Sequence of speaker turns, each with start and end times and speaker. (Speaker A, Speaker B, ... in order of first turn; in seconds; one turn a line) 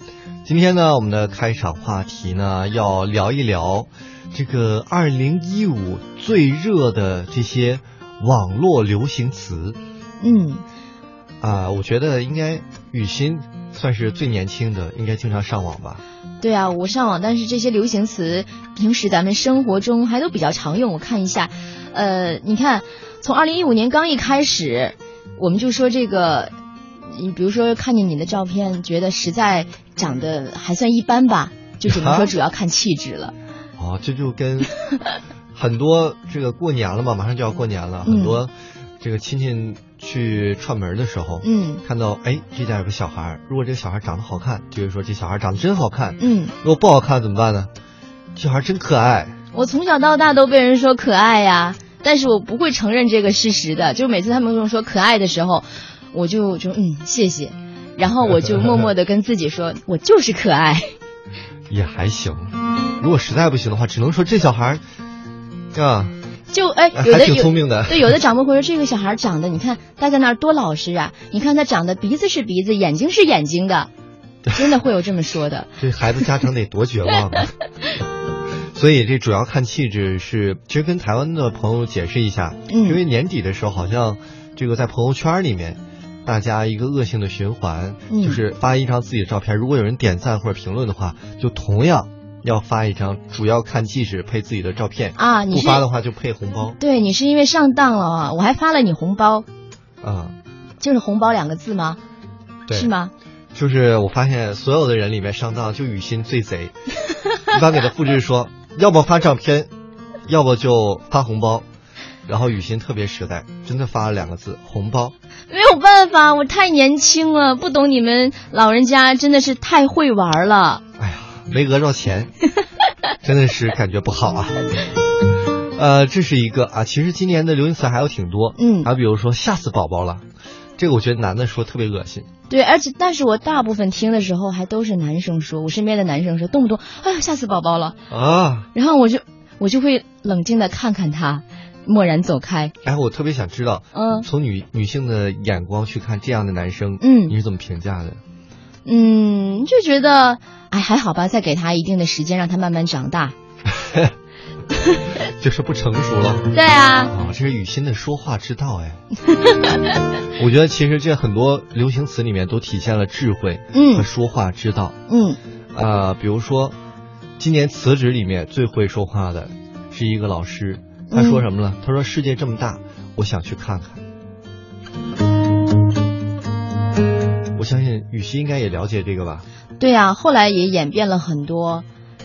Speaker A: 0.5-9.8
Speaker B: 10.2-10.6
Speaker A: 11.4-16.0
Speaker B: 16.4-26.5
Speaker B: 27.1-33.3
Speaker A: 31.9-32.3
Speaker A: 33.8-34.7
Speaker A: 35.5-47.7
Speaker B: 38.0-38.4
Speaker B: 41.4-41.8
Speaker B: 46.2-46.5
Speaker A: 48.4-49.3
Speaker B: 49.5-60.9
Speaker A: 61.7-64.8
Speaker A: 65.7-66.2
Speaker B: 66.5-73.9
Speaker A: 66.9-68.2
Speaker B: 74.5-75.7
Speaker A: 75.8-77.5
Speaker A: 78.7-96.8
Speaker B: 82.7-83.0
Speaker B: 88.1-88.4
Speaker B: 95.2-95.9
Speaker B: 96.8-99.5
Speaker A: 100.0-100.4
Speaker B: 100.8-102.0
Speaker B: 102.7-103.1
Speaker A: 103.5-106.7
Speaker A: 107.4-109.7
Speaker A: 110.3-111.7
Speaker A: 112.3-115.1
Speaker B: 115.5-120.8
Speaker A: 121.0-122.3
Speaker A: 123.2-124.7
Speaker A: 125.8-130.2
Speaker B: 128.6-128.9
Speaker A: 130.8-132.3
Speaker B: 132.5-138.0
Speaker A: 138.1-138.7
Speaker B: 138.8-142.7
Speaker A: 142.8-148.2
Speaker B: 143.9-144.3
Speaker B: 147.0-147.3
Speaker B: 148.8-153.3
Speaker A: 153.8-154.1
Speaker A: 155.2-156.5
Speaker B: 156.5-157.1
Speaker A: 157.1-159.0
Speaker B: 159.4-159.8
Speaker A: 160.3-164.9
Speaker B: 163.7-164.1
Speaker B: 165.1-165.4
Speaker A: 165.7-166.8
Speaker A: 167.4-174.0
Speaker B: 171.1-171.4
Speaker A: 177.6-179.4
Speaker B: 179.8-181.8